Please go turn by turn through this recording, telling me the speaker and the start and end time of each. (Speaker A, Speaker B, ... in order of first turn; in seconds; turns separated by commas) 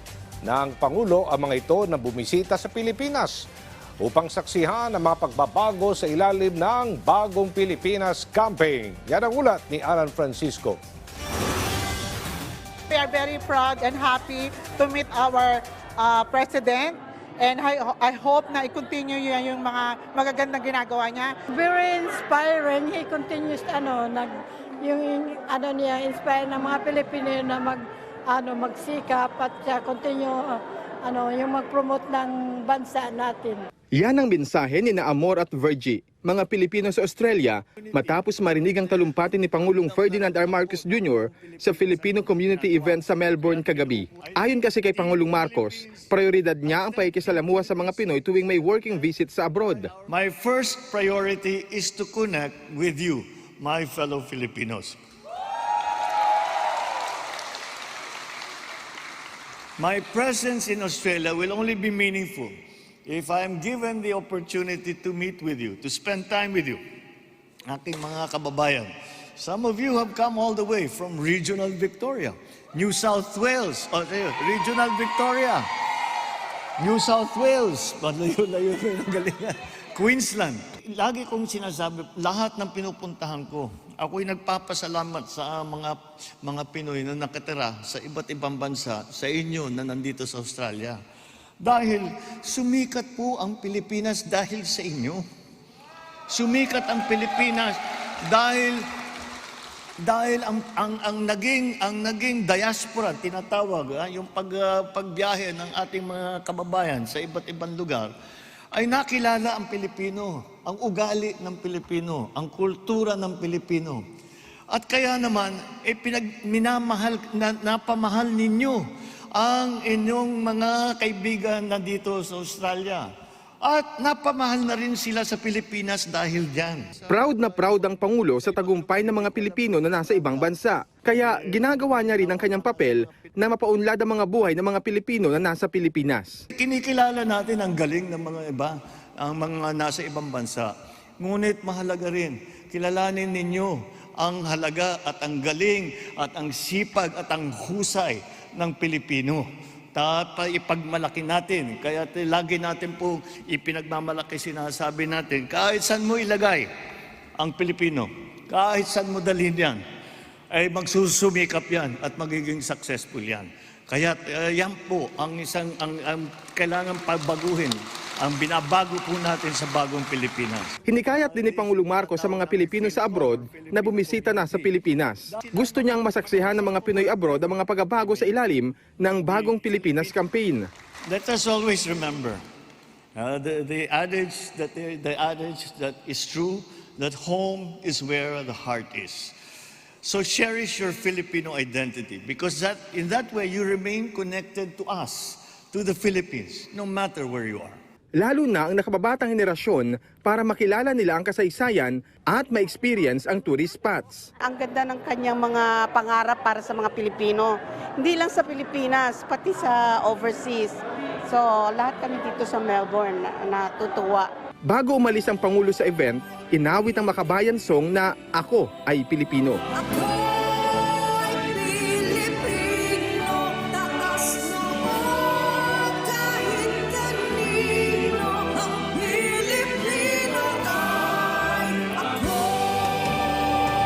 Speaker A: 0.4-3.5, Speaker A: 4.0-10.8, Speaker B: 12.9-21.4, Speaker C: 21.5-33.7, Speaker D: 34.0-49.9, Speaker E: 37.8-49.0, Speaker E: 49.7-55.0, Speaker E: 59.8-62.5, Speaker E: 63.1-66.8, Speaker E: 67.7-75.7, Speaker E: 76.8-91.0, Speaker E: 91.6-95.2, Speaker E: 96.3-97.8, Speaker E: 98.3-98.8, Speaker E: 100.0-108.1, Speaker E: 108.7-114.0, Speaker E: 114.7-118.8, Speaker E: 119.3-123.1, Speaker E: 123.6-133.3, Speaker D: 127.1-136.4, Speaker E: 136.5-140.7, Speaker E: 141.2-156.7, Speaker E: 157.4-159.8, Speaker E: 160.5-178.4, Speaker D: 170.9-180.7, Speaker E: 179.3-180.2, Speaker E: 181.1-182.4, Speaker E: 183.2-189.3, Speaker E: 190.0-197.8, Speaker D: 198.2-204.3, Speaker F: 204.4-214.3, Speaker D: 214.7-219.6, Speaker C: 219.8-233.1